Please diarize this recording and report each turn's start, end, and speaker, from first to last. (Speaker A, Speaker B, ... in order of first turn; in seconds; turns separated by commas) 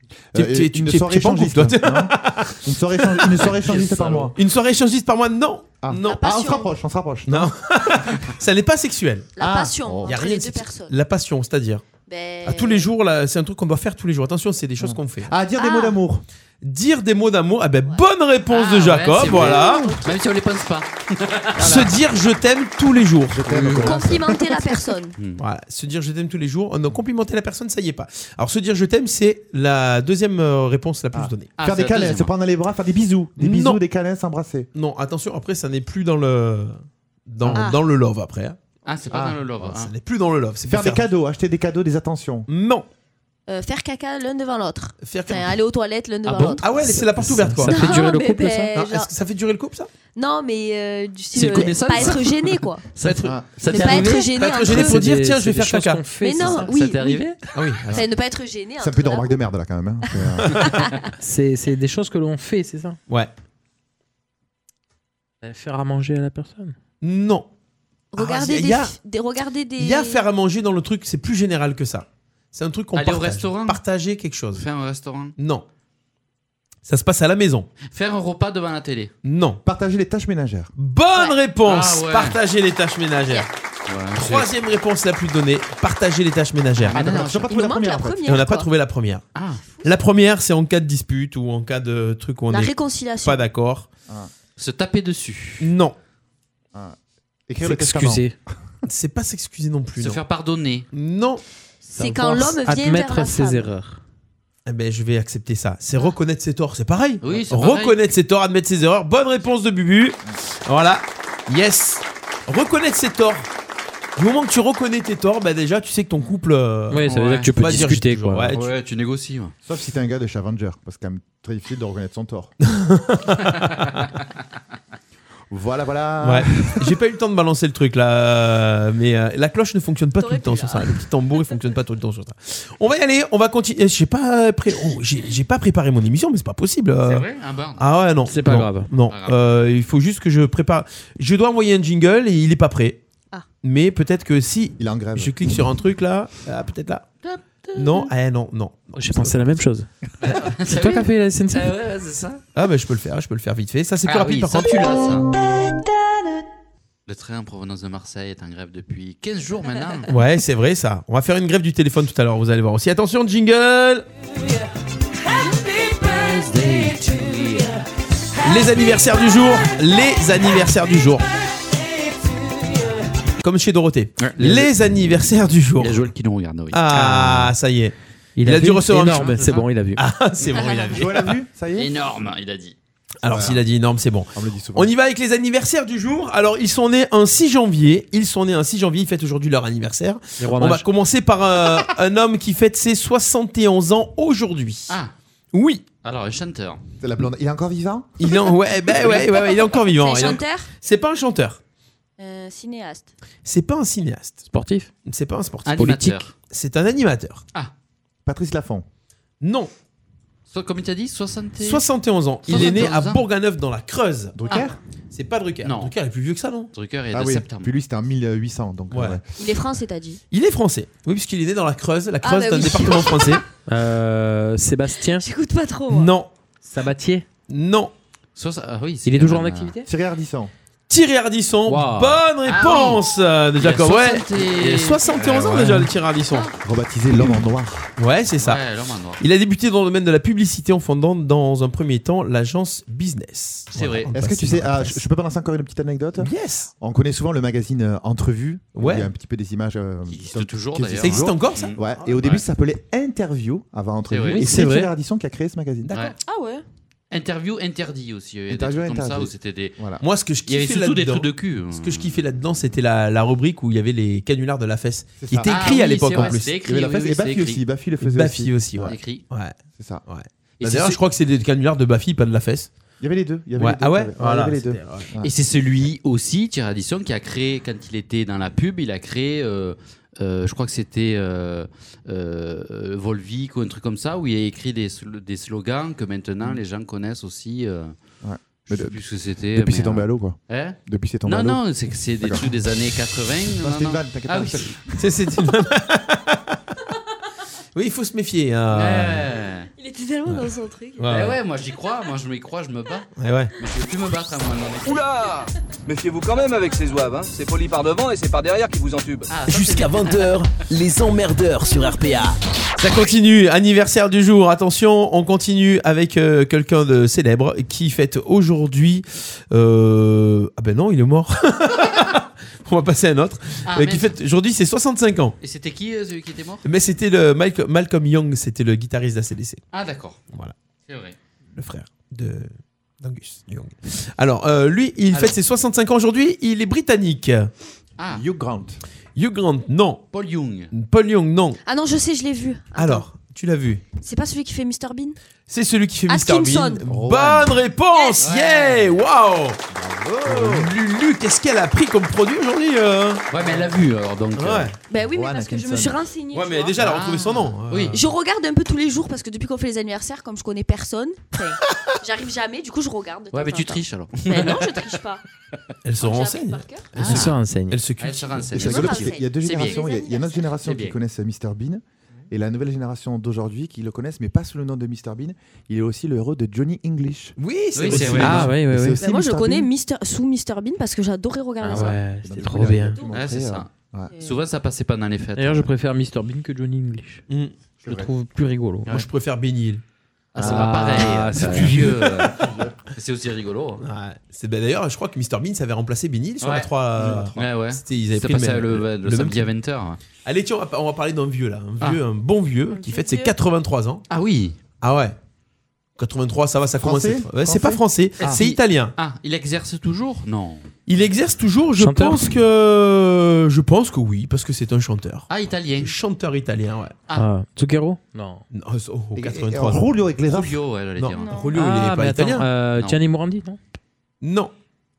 Speaker A: 0.3-4.3, Speaker B: 0.3-6.3, Speaker C: 3.6-4.3, Speaker A: 5.8-7.9, Speaker D: 6.0-6.7, Speaker B: 7.3-9.3, Speaker D: 9.4-10.9, Speaker A: 9.4-10.2, Speaker B: 10.1-11.8, Speaker D: 12.1-12.9, Speaker B: 12.4-15.3, Speaker A: 14.8-16.2, Speaker D: 15.6-16.0, Speaker B: 16.6-20.0, Speaker C: 18.5-21.9, Speaker D: 19.3-20.2, Speaker B: 21.6-24.1, Speaker A: 21.6-21.9, Speaker A: 23.3-24.4, Speaker D: 23.8-25.1, Speaker C: 25.2-25.4, Speaker B: 25.4-31.5, Speaker A: 31.1-34.7, Speaker C: 31.6-32.3, Speaker B: 33.4-33.8, Speaker B: 34.7-38.6, Speaker D: 37.5-37.8, Speaker C: 38.9-39.9, Speaker A: 39.1-39.4, Speaker B: 39.6-41.1, Speaker A: 40.6-42.5, Speaker B: 42.5-42.9, Speaker D: 43.5-47.0, Speaker B: 45.0-45.6, Speaker C: 46.3-46.6, Speaker B: 46.6-48.1, Speaker E: 46.8-48.8, Speaker D: 47.6-49.1, Speaker B: 48.7-49.9, Speaker D: 50.1-52.8, Speaker C: 51.3-54.3, Speaker B: 53.0-56.5, Speaker A: 53.2-53.7, Speaker D: 53.7-55.0, Speaker E: 54.6-56.8, Speaker D: 56.2-59.4, Speaker C: 56.6-57.4, Speaker B: 57.5-58.0, Speaker A: 58.8-60.7, Speaker D: 60.6-61.0, Speaker E: 61.2-63.0, Speaker E: 65.4-66.8, Speaker B: 67.0-67.5, Speaker D: 68.1-70.2, Speaker B: 68.2-69.0, Speaker B: 69.8-74.6, Speaker C: 72.9-73.8, Speaker C: 74.5-75.3, Speaker B: 75.4-75.7, Speaker B: 76.8-77.7, Speaker C: 77.9-79.1, Speaker B: 79.2-79.6, Speaker A: 79.6-80.7, Speaker B: 80.8-83.5, Speaker C: 81.6-82.4, Speaker C: 83.9-84.5, Speaker B: 84.2-87.0, Speaker C: 86.8-87.5, Speaker A: 86.9-88.3, Speaker D: 87.4-88.7, Speaker B: 88.2-89.2, Speaker C: 89.3-89.6, Speaker B: 89.8-93.9, Speaker D: 92.5-93.4, Speaker C: 94.6-95.7, Speaker B: 95.6-96.0, Speaker A: 97.5-98.3, Speaker E: 97.6-98.3, Speaker B: 98.8-100.2, Speaker C: 100.0-100.9, Speaker B: 100.9-101.4, Speaker E: 101.8-104.0, Speaker D: 102.0-103.7, Speaker B: 104.7-113.5, Speaker C: 107.2-108.0, Speaker B: 114.2-118.7, Speaker E: 116.9-118.5, Speaker C: 117.0-117.5, Speaker C: 118.5-119.5, Speaker A: 119.6-122.5, Speaker B: 122.7-124.0, Speaker A: 125.5-127.0, Speaker B: 126.2-137.2, Speaker D: 130.2-131.1, Speaker C: 137.0-137.8, Speaker B: 137.8-143.0, Speaker E: 138.3-138.9, Speaker C: 139.1-139.4, Speaker B: 143.6-147.1, Speaker A: 144.8-145.6, Speaker C: 147.2-148.1, Speaker B: 147.8-149.6, Speaker E: 148.9-149.9, Speaker C: 150.2-152.4, Speaker E: 150.6-151.8, Speaker B: 152.6-155.0, Speaker C: 154.0-155.3, Speaker C: 157.1-160.1, Speaker B: 160.1-164.1, Speaker C: 165.4-167.8, Speaker B: 168.4-171.3, Speaker B: 173.4-176.0, Speaker C: 174.2-174.7, Speaker C: 175.8-177.5, Speaker B: 176.7-179.4, Speaker E: 178.4-180.0, Speaker C: 179.2-179.7, Speaker B: 180.0-181.4, Speaker D: 180.6-180.9, Speaker A: 180.8-181.9, Speaker C: 181.8-182.8, Speaker B: 183.2-195.0, Speaker A: 183.2-183.6, Speaker A: 184.3-184.9, Speaker E: 190.4-190.9, Speaker B: 195.5-195.8, Speaker C: 196.0-196.8, Speaker A: 197.0-198.3, Speaker B: 198.2-201.6, Speaker D: 199.3-200.7, Speaker D: 202.2-203.1, Speaker B: 203.4-204.5, Speaker E: 204.5-204.9, Speaker B: 205.1-207.4, Speaker C: 205.7-206.3, Speaker A: 208.2-208.8, Speaker B: 209.4-209.7, Speaker C: 210.5-211.9, Speaker B: 211.6-214.4, Speaker C: 212.4-213.2, Speaker A: 214.3-214.8, Speaker B: 215.1-216.7, Speaker C: 215.6-215.9, Speaker C: 216.7-217.7, Speaker A: 217.1-219.2, Speaker B: 218.9-219.2, Speaker D: 219.4-220.2, Speaker B: 220.3-223.5, Speaker D: 222.2-223.4, Speaker E: 223.7-225.2, Speaker D: 225.1-226.1, Speaker B: 225.9-226.3, Speaker E: 226.6-227.2, Speaker B: 227.5-227.9, Speaker C: 228.4-229.8, Speaker E: 229.1-229.9, Speaker A: 229.9-230.5, Speaker B: 230.9-236.5, Speaker E: 231.7-232.1, Speaker C: 232.0-233.0, Speaker C: 233.6-236.6, Speaker E: 235.6-235.8, Speaker A: 236.6-237.9, Speaker B: 238.0-238.6, Speaker C: 238.4-239.2, Speaker B: 239.2-245.0, Speaker C: 243.7-244.1, Speaker A: 244.1-255.9, Speaker B: 246.2-246.7, Speaker B: 248.8-249.1, Speaker C: 250.1-252.4, Speaker B: 251.0-252.4, Speaker C: 254.1-254.4, Speaker E: 254.3-254.9, Speaker B: 254.4-254.8, Speaker B: 255.8-256.1, Speaker D: 256.2-256.6, Speaker C: 257.1-259.8, Speaker A: 258.5-260.0, Speaker B: 260.0-266.5, Speaker C: 260.5-262.3, Speaker A: 265.2-269.0, Speaker C: 265.5-267.6, Speaker B: 268.0-272.7, Speaker C: 268.8-269.2, Speaker A: 269.7-270.0, Speaker C: 270.6-271.0, Speaker A: 273.0-275.3, Speaker B: 273.6-275.1, Speaker C: 275.2-287.9, Speaker A: 288.2-289.0, Speaker C: 288.7-294.8, Speaker A: 289.6-291.6, Speaker A: 292.2-292.5, Speaker A: 293.6-294.9, Speaker B: 295.0-296.5, Speaker B: 297.7-299.3, Speaker C: 298.7-299.7, Speaker D: 299.8-301.1, Speaker B: 301.0-301.4, Speaker C: 301.1-305.1, Speaker B: 303.2-303.5, Speaker F: 304.8-309.3, Speaker C: 309.3-310.4, Speaker B: 309.5-309.8, Speaker G: 309.6-312.4, Speaker B: 312.8-325.4, Speaker C: 323.7-324.1, Speaker C: 325.4-326.7, Speaker B: 326.6-329.6, Speaker C: 329.7-330.2, Speaker C: 330.9-331.2, Speaker B: 331.6-337.5, Speaker C: 335.1-335.4, Speaker C: 338.0-338.2, Speaker A: 338.1-338.8, Speaker B: 339.2-340.1, Speaker C: 340.1-340.7, Speaker B: 340.7-341.6, Speaker D: 341.6-343.1, Speaker B: 342.8-343.8, Speaker D: 344.0-345.2, Speaker B: 345.5-349.6, Speaker D: 346.1-346.8, Speaker A: 346.9-347.6, Speaker D: 347.9-348.2, Speaker C: 348.2-349.0, Speaker A: 349.7-350.8, Speaker B: 350.2-353.2, Speaker C: 353.3-354.7, Speaker B: 354.4-354.8, Speaker D: 354.9-356.8, Speaker A: 355.0-356.1, Speaker B: 356.3-358.0, Speaker C: 356.8-358.0, Speaker D: 357.9-365.2, Speaker C: 363.3-364.9, Speaker B: 365.8-369.0, Speaker D: 366.0-366.9, Speaker C: 367.0-367.4, Speaker E: 367.0-367.8, Speaker C: 368.0-369.9, Speaker A: 368.6-377.4, Speaker D: 368.6-370.5, Speaker C: 370.6-371.0, Speaker B: 377.4-378.6, Speaker C: 377.8-378.5, Speaker A: 377.9-379.7, Speaker E: 378.2-379.0, Speaker D: 379.0-382.0, Speaker E: 381.6-383.0, Speaker A: 382.2-384.1, Speaker D: 382.6-383.0, Speaker C: 383.1-385.7, Speaker D: 384.1-384.4, Speaker E: 385.4-387.2, Speaker B: 387.3-387.6, Speaker A: 387.8-388.1, Speaker E: 387.9-388.9, Speaker B: 388.9-389.8, Speaker C: 390.3-392.4, Speaker A: 390.4-392.8, Speaker B: 390.4-392.4, Speaker C: 392.9-393.8, Speaker B: 393.8-399.5, Speaker C: 396.4-400.0, Speaker A: 397.0-397.4, Speaker B: 400.2-404.0, Speaker D: 402.7-403.4, Speaker C: 404.1-404.6, Speaker B: 404.8-405.2, Speaker B: 406.0-408.9, Speaker A: 406.8-408.4, Speaker C: 408.2-410.7, Speaker B: 410.9-417.0, Speaker E: 411.8-412.3, Speaker C: 415.3-416.0, Speaker E: 417.1-418.4, Speaker B: 418.5-419.9, Speaker A: 419.1-420.6, Speaker C: 420.3-421.4, Speaker B: 421.0-422.5, Speaker D: 421.1-421.6, Speaker E: 421.6-423.6, Speaker C: 422.8-423.0, Speaker B: 424.2-424.5